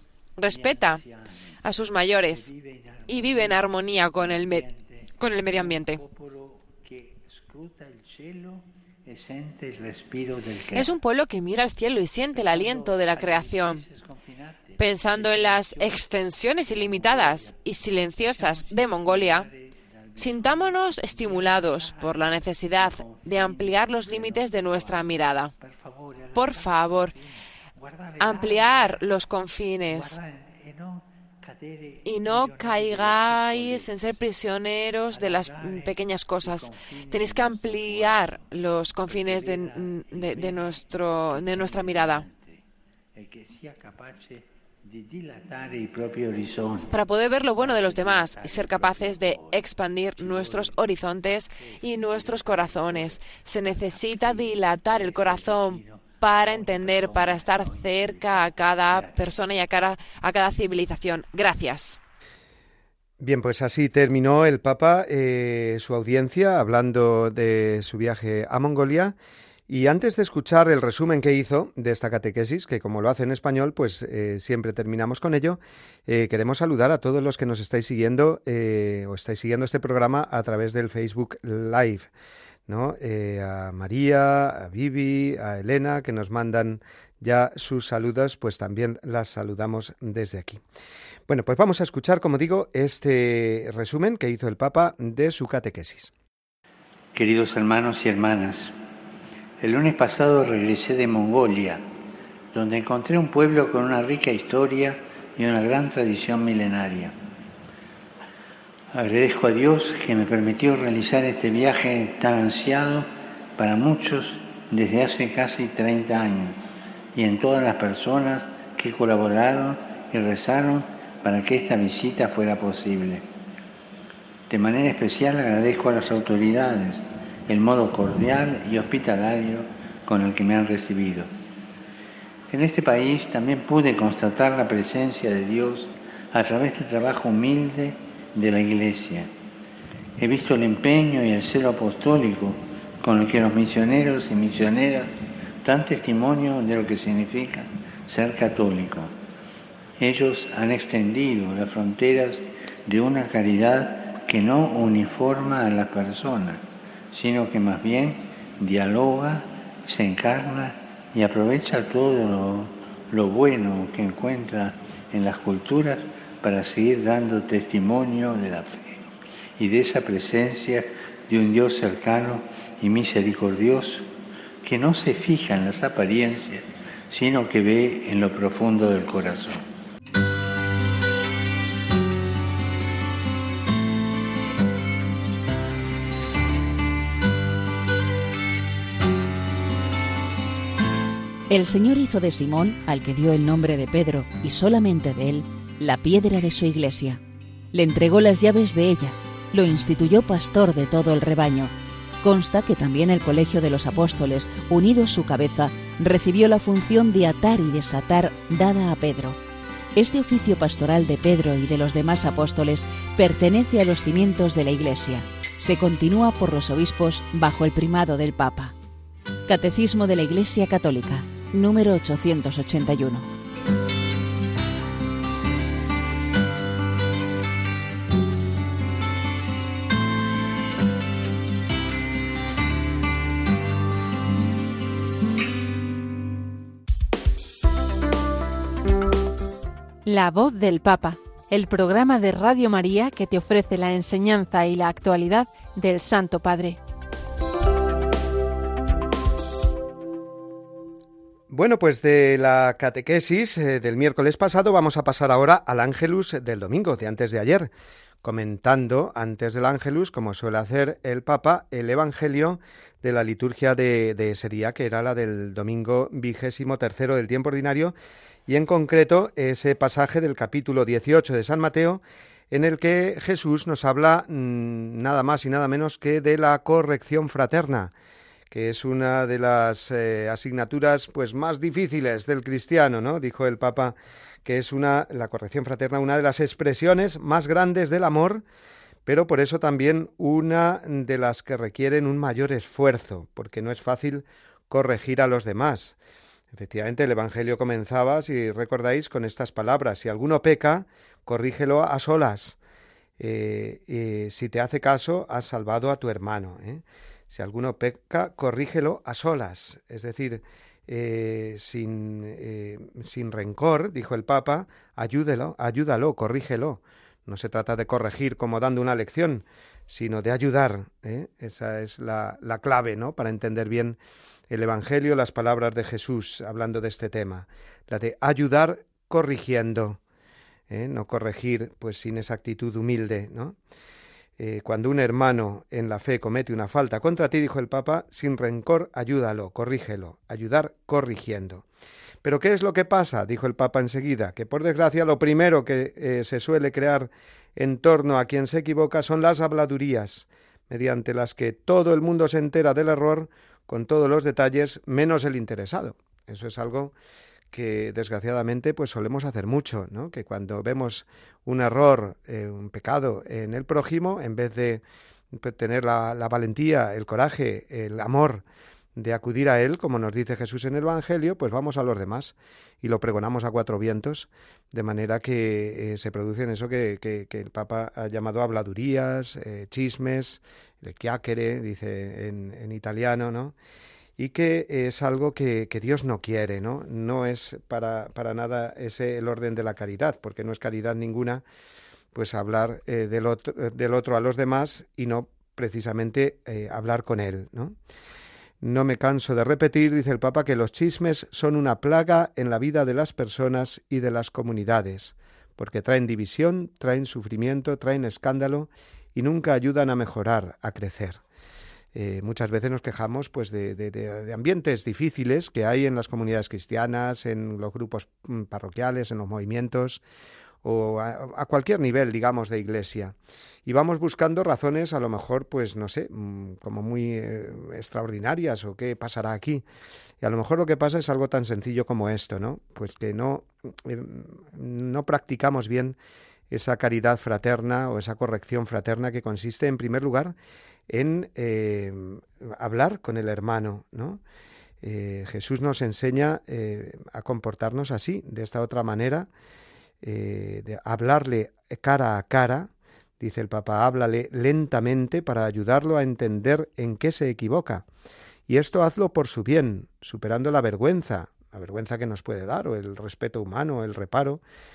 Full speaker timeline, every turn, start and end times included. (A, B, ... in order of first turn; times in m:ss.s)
0:00.4-0:01.0 A
0:00.5-0:01.5 B
0:01.6-0:02.5 A
0:02.3-0:10.9 B
0:03.1-0:04.6 A
0:05.2-0:06.0 A
0:10.7-0:13.8 A
0:12.3-0:17.6 B
0:14.8-0:19.5 A
0:18.2-0:29.0 B
0:20.2-0:25.5 A
0:26.3-0:27.2 A
0:28.2-0:30.2 A
0:29.9-0:34.2 B
0:32.0-0:42.2 A
0:35.1-0:38.5 B
0:39.0-0:42.6 B
0:43.1-0:47.0 B
0:46.9-1:02.0 A
0:47.5-0:59.4 B
1:03.2-1:09.1 C
1:09.7-1:22.1 C
1:22.7-1:30.6 C
1:31.3-1:36.1 C
1:37.1-1:38.7 B
1:39.6-1:41.8 B
1:42.5-1:47.1 B
1:48.9-1:53.0 B
1:53.6-1:56.6 B
1:57.1-2:03.2 B
2:04.5-2:11.3 B
2:12.5-2:19.3 B
2:20.2-2:25.1 B
2:25.6-2:29.1 B
2:30.0-2:54.1 B
2:54.6-2:59.6 B
3:11.5-3:29.4 D
3:29.9-3:38.7 D
3:39.5-3:43.3 D
4:00.0-4:06.8 E
4:11.5-4:17.7 C
4:18.2-4:27.9 C
4:28.5-4:37.9 C
4:38.5-4:48.4 C
4:49.0-4:56.0 C
4:56.5-5:02.6 C
5:03.2-5:24.0 C
5:24.5-5:30.0 C
5:30.7-5:33.6 C
5:34.4-5:41.6 C
5:42.2-5:56.9 C
5:57.5-6:08.4 C
6:09.0-6:23.5 C
6:24.2-6:31.4 C
6:32.1-6:37.8 C
6:38.6-6:51.2 C
6:51.9-7:00.0 C
7:00.6-7:03.1 C
7:03.6-7:09.6 C
7:10.2-7:16.0 C
7:16.5-7:20.3 C
7:20.9-7:24.2 C
7:24.8-7:29.3 C
7:30.0-7:37.8 C
7:38.5-7:44.4 C